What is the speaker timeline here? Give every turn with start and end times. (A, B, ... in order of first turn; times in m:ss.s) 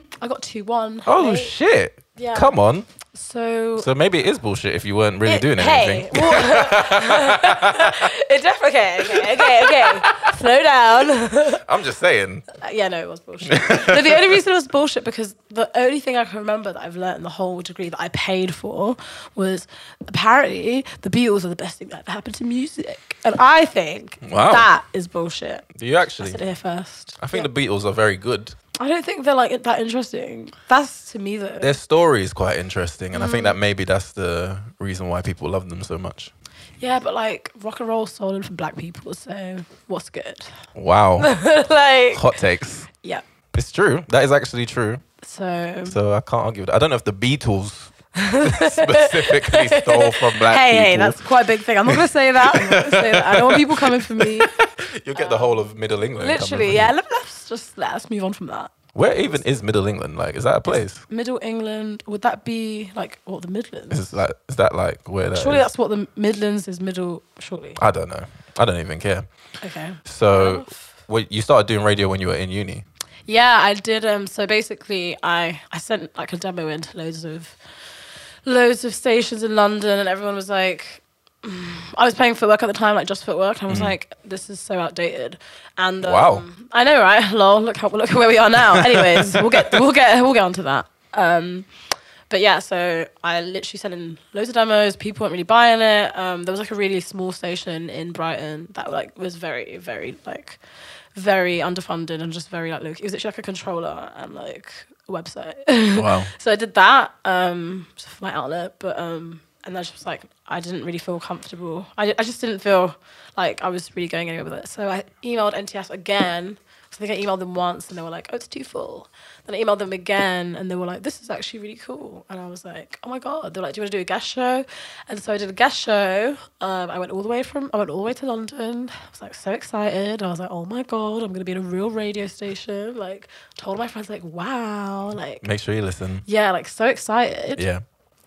0:00.2-0:01.5 A
0:01.0-0:02.9 B
0:02.2-0:02.6 A
0:03.1-0:03.9 A
0:03.8-0:08.1 B
0:05.2-0:11.6 A
0:09.1-0:10.4 B
0:11.5-0:12.5 B
0:12.5-0:25.7 A
0:13.5-0:14.4 B
0:24.2-0:24.7 B
0:25.8-0:26.4 B
0:26.2-0:27.5 A
0:27.2-0:28.6 B
0:28.8-0:31.8 A
0:31.6-0:36.3 B
0:33.1-0:33.6 A
0:36.8-0:40.6 A
0:40.8-0:41.4 B
0:41.2-0:42.4 A
0:42.1-0:42.9 B
0:43.5-0:45.0 B
0:45.2-0:46.0 A
0:45.8-0:51.3 B
0:48.2-0:58.7 A
0:51.8-0:56.9 B
0:59.0-1:01.0 B
1:00.7-1:04.1 A
1:03.9-1:05.7 B
1:05.3-1:07.8 A
1:07.8-1:09.3 B
1:09.6-1:10.9 A
1:10.0-1:12.8 B
1:13.3-1:17.6 A
1:18.4-1:31.7 A
1:23.7-1:24.0 B
1:26.0-1:26.4 B
1:28.7-1:29.7 B
1:32.3-1:40.6 A
1:41.2-2:15.5 A
1:46.0-1:46.3 B
2:15.4-2:16.3 B
2:16.3-2:17.7 A
2:17.6-2:17.8 B